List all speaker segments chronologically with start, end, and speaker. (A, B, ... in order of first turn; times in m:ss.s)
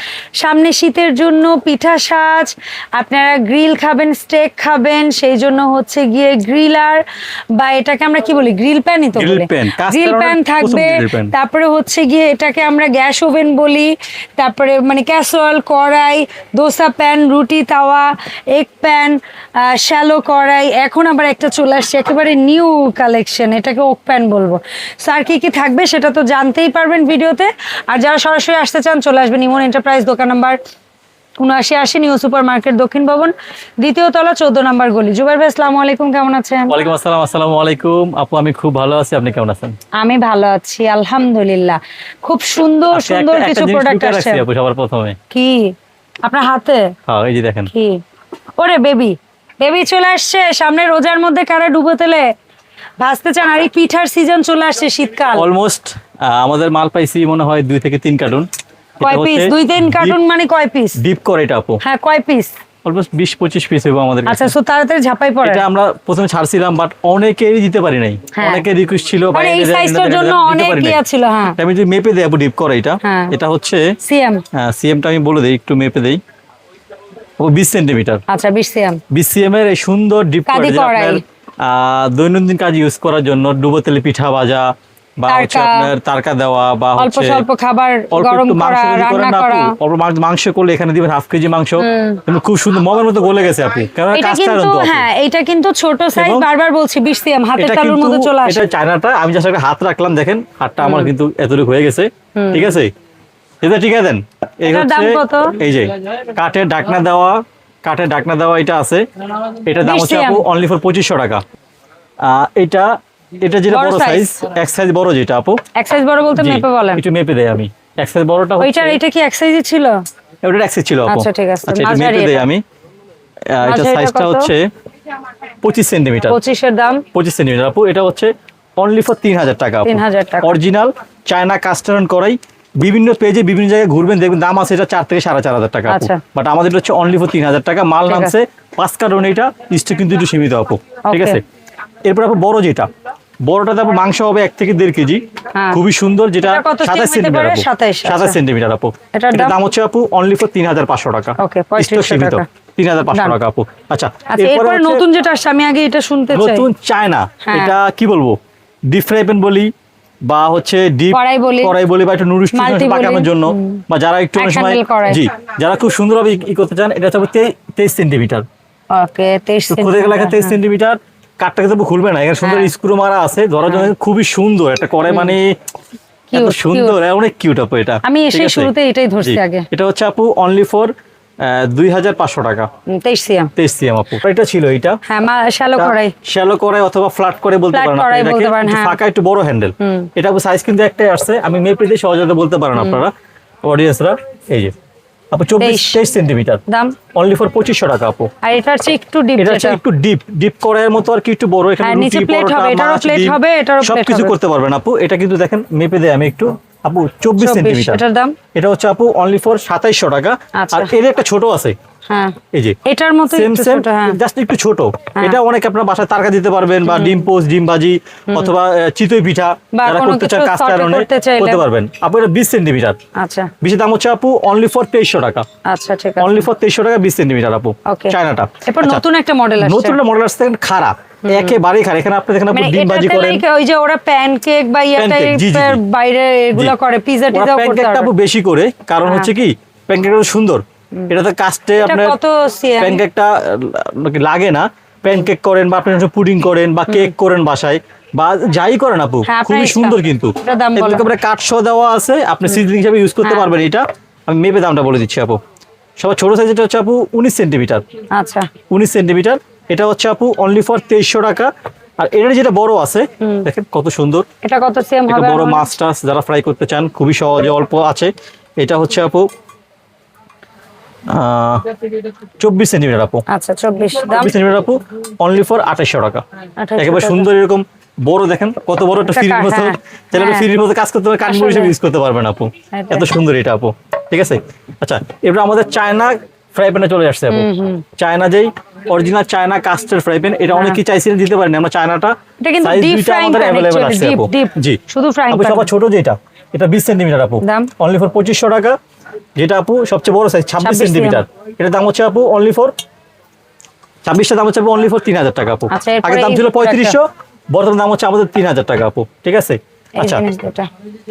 0:00.4-0:07.0 A
0:07.6-0:30.6 A
0:09.2-0:11.3 B
0:31.4-0:36.8 A
0:36.7-0:39.8 B
0:40.0-0:44.4 A
0:42.9-0:45.2 B
0:45.3-0:46.9 A
0:47.1-0:47.7 B
0:47.7-0:48.0 A
0:48.6-0:52.3 A
0:53.0-0:55.5 A
0:55.3-0:58.5 B
0:59.0-1:00.2 B
0:59.0-1:01.0 A
1:01.0-1:01.8 B
1:01.8-1:02.5 A
1:02.8-1:04.5 B
1:04.3-1:05.6 A
1:05.4-1:11.0 B
1:08.3-1:08.6 A
1:09.3-1:11.6 A
1:11.6-1:13.8 B
1:13.0-1:13.4 A
1:14.0-1:14.4 A
1:14.5-1:16.2 B
1:17.4-1:18.2 B
1:18.3-1:19.0 A
1:19.1-1:27.5 B
1:20.5-1:21.2 A
1:25.3-1:25.9 A
1:27.0-1:29.8 A
1:28.1-1:35.1 B
1:31.8-1:32.2 A
1:34.1-1:38.7 A
1:36.2-1:36.5 B
1:37.6-1:42.9 B
1:40.8-1:41.1 A
1:42.4-1:42.8 A
1:43.6-1:49.1 B
1:44.7-1:45.6 A
1:49.6-1:51.4 B
1:49.8-1:50.4 A
1:52.2-1:55.6 B
1:53.7-1:54.4 A
1:55.8-1:57.0 A
1:56.4-1:59.0 B
1:58.6-2:00.0 A
2:00.4-2:02.6 B
2:01.1-2:02.5 A
2:03.5-2:04.7 B
2:03.6-2:04.5 A
2:05.6-2:06.4 B
2:06.3-2:07.0 A
2:07.1-2:21.4 B
2:09.9-2:10.6 A
2:15.9-2:16.2 A
2:18.1-2:18.4 A
2:21.1-2:21.4 A
2:22.0-2:22.9 B
2:23.4-2:35.0 B
2:25.6-2:25.8 A
2:26.4-2:28.4 A
2:29.1-2:29.6 A
2:31.4-2:32.5 A
2:33.1-2:33.4 A
2:34.3-2:36.7 A
2:36.3-2:38.4 B
2:37.4-2:37.7 A
2:38.9-2:39.7 B
2:40.3-2:48.4 B
2:41.1-2:41.8 A
2:42.5-2:43.8 A
2:44.4-2:45.3 A
2:48.9-2:50.6 A
2:49.7-2:55.6 B
2:52.4-2:52.7 A
2:55.1-2:55.4 A
2:56.3-2:57.0 A
2:56.3-2:58.7 B
2:58.0-2:59.7 A
2:59.2-3:02.7 B
3:02.9-3:03.5 A
3:03.6-3:05.0 B
3:05.1-3:06.1 A
3:05.8-3:13.1 B
3:07.7-3:09.0 A
3:09.8-3:10.1 A
3:12.7-3:13.0 A
3:13.6-3:14.7 B
3:15.3-3:16.6 B
3:15.6-3:16.0 A
3:16.7-3:17.0 A
3:17.2-3:18.3 B
3:18.4-3:19.8 A
3:19.4-3:28.0 B
3:21.8-3:24.3 A
3:27.4-3:28.4 A
3:28.6-3:31.8 B
3:30.6-3:30.9 A
3:32.1-3:34.2 A
3:33.3-3:43.0 B
3:36.9-3:37.3 A
3:39.7-3:41.6 A
3:43.2-3:43.5 A
3:43.6-3:45.5 B
3:45.7-3:46.5 A
3:46.2-3:49.0 B
3:47.9-3:50.0 A
3:49.6-3:53.4 B
3:51.3-3:51.6 A
3:52.5-3:58.1 A
3:55.0-3:55.8 B
3:57.3-4:02.2 B
3:59.0-3:59.3 A
4:01.8-4:03.0 A
4:02.8-4:15.4 B
4:09.3-4:11.1 A
4:13.2-4:13.5 A
4:16.0-4:17.8 B
4:18.1-4:18.5 A
4:18.7-4:24.2 B
4:24.4-4:25.7 A
4:25.1-4:29.3 B
4:31.1-4:31.7 B
4:32.4-4:33.2 B
4:33.3-4:34.3 A
4:34.0-4:36.2 B
4:36.6-4:37.3 A
4:36.8-4:58.8 B
4:39.1-4:40.5 A
4:41.2-4:41.7 A
4:42.7-4:43.1 A
4:47.3-4:47.8 A
4:50.5-4:50.8 A
4:52.4-4:55.7 A
4:57.4-4:57.7 A
4:59.4-5:02.7 B
5:00.6-5:01.2 A
5:04.1-5:10.2 B
5:05.7-5:07.0 A
5:10.0-5:10.7 A